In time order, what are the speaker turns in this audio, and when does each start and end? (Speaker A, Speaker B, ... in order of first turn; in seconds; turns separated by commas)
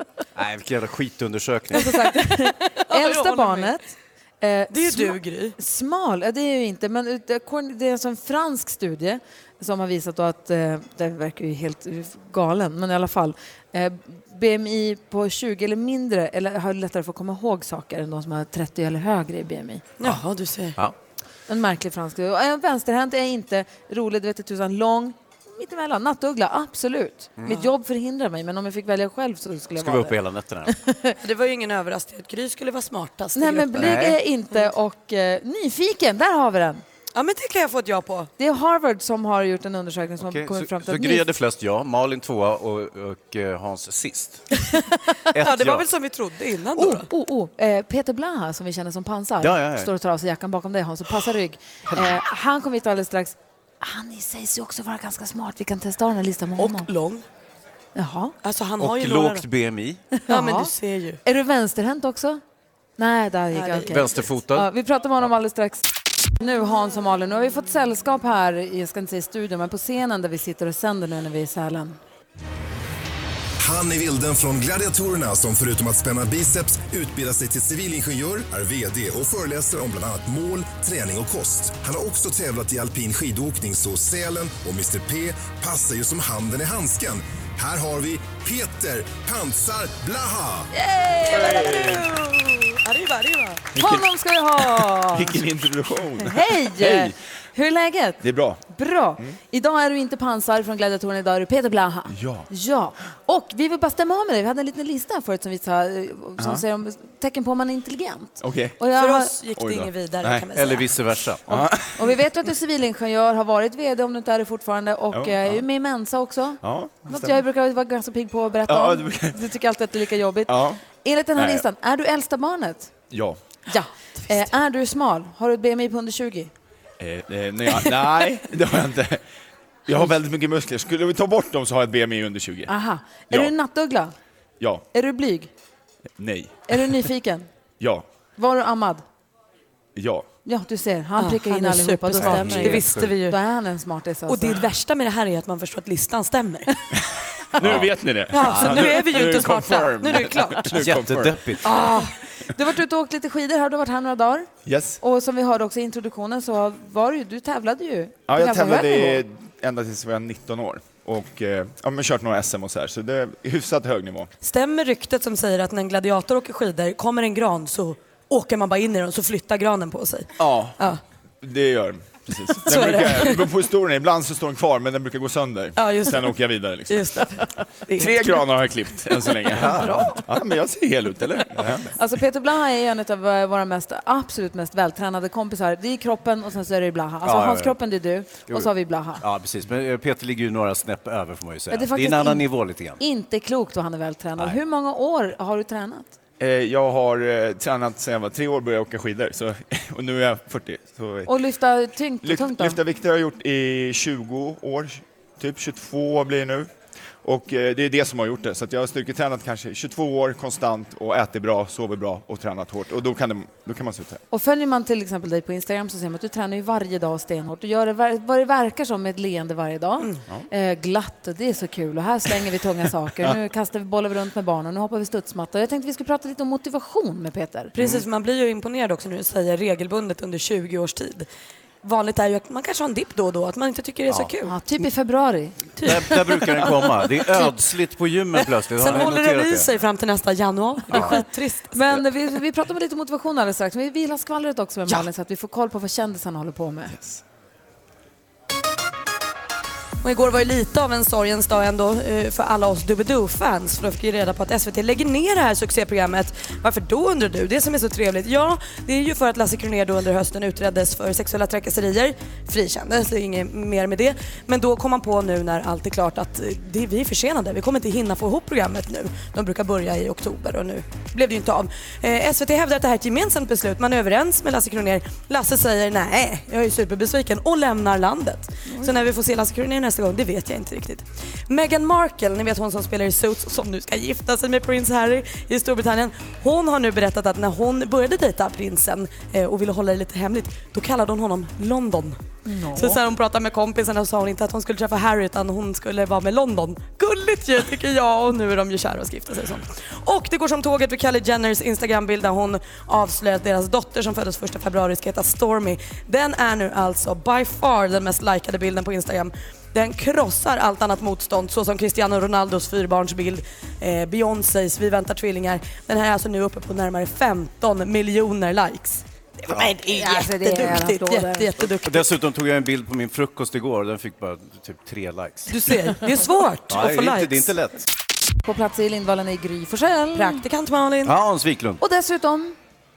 Speaker A: 0.3-2.0, Speaker B: 1.7-19.8, Speaker C: 2.6-3.7, Speaker C: 4.7-5.5, Speaker C: 20.0-20.8, Speaker B: 21.5-30.1, Speaker A: 27.4-27.6, Speaker A: 29.8-30.7, Speaker B: 30.7-31.1, Speaker C: 31.2-34.0, Speaker B: 33.4-36.8, Speaker A: 33.8-34.2, Speaker C: 37.1-38.3, Speaker B: 38.4-41.2, Speaker A: 40.2-44.6, Speaker A: 45.3-45.9, Speaker C: 45.4-47.1, Speaker B: 46.8-56.9, Speaker A: 49.4-49.9, Speaker C: 56.6-57.2, Speaker B: 57.9-58.3, Speaker C: 58.4-59.5, Speaker A: 58.8-60.0, Speaker B: 60.1-60.7, Speaker C: 60.3-61.2, Speaker B: 61.2-62.4, Speaker B: 63.0-72.0, Speaker C: 63.5-64.3, Speaker A: 63.9-64.7, Speaker D: 73.6-90.7, Speaker B: 90.8-91.9, Speaker C: 91.2-93.6, Speaker E: 91.3-92.1, Speaker E: 93.8-94.1, Speaker B: 93.8-95.4, Speaker E: 94.6-97.2, Speaker B: 96.2-109.3, Speaker E: 98.2-98.6, Speaker E: 102.1-102.5, Speaker E: 106.4-106.6, Speaker E: 108.4-108.8, Speaker C: 108.9-110.9, Speaker E: 109.5-110.5, Speaker A: 110.5-111.6, Speaker E: 111.5-112.0, Speaker B: 111.5-122.9, Speaker E: 115.1-115.6, Speaker E: 116.6-117.4, Speaker E: 118.7-119.4, Speaker E: 120.5-120.8, Speaker E: 121.3-121.6, Speaker E: 123.1-123.4, Speaker B: 123.7-126.5, Speaker E: 127.0-129.2, Speaker E: 129.9-132.7, Speaker B: 132.7-134.1, Speaker E: 134.6-134.8, Speaker B: 134.9-135.5, Speaker E: 136.2-136.8, Speaker B: 136.7-137.5, Speaker E: 137.8-138.0, Speaker B: 138.4-139.0, Speaker E: 139.9-140.3, Speaker B: 140.4-144.6, Speaker C: 141.2-143.4, Speaker A: 142.2-143.1, Speaker C: 144.3-146.7, Speaker E: 147.6-151.4, Speaker C: 148.3-150.8, Speaker A: 148.4-148.9, Speaker A: 150.7-151.6, Speaker B: 151.6-154.5, Speaker C: 151.6-152.1, Speaker E: 154.7-155.0, Speaker B: 155.0-159.2, Speaker E: 158.3-164.3, Speaker C: 164.4-171.0, Speaker E: 170.4-170.8, Speaker E: 171.4-177.2, Speaker C: 172.6-173.5, Speaker C: 175.8-178.4, Speaker E: 177.9-181.9, Speaker C: 179.5-180.2, Speaker A: 179.5-180.2, Speaker B: 181.9-189.2, Speaker A: 187.2-187.8, Speaker A: 188.5-193.0, Speaker B: 191.7-196.1, Speaker E: 196.4-201.3, Speaker B: 201.3-202.8, Speaker E: 202.2-206.7, Speaker E: 207.2-214.2, Speaker B: 214.3-227.8, Speaker C: 227.8-231.3, Speaker C: 231.8-234.5, Speaker B: 234.4-235.6, Speaker C: 235.8-236.1, Speaker A: 235.8-239.7, Speaker C: 238.7-241.8, Speaker A: 240.9-241.2, Speaker B: 240.9-246.9, Speaker E: 246.9-247.2, Speaker C: 250.0-292.2, Speaker B: 278.7-278.9, Speaker B: 292.4-293.0, Speaker C: 292.7-322.1, Speaker B: 319.9-321.5, Speaker A: 321.8-325.7, Speaker C: 325.5-327.5, Speaker A: 326.7-327.9, Speaker B: 328.4-330.4, Speaker C: 330.1-331.2, Speaker A: 331.0-331.8, Speaker B: 331.8-332.5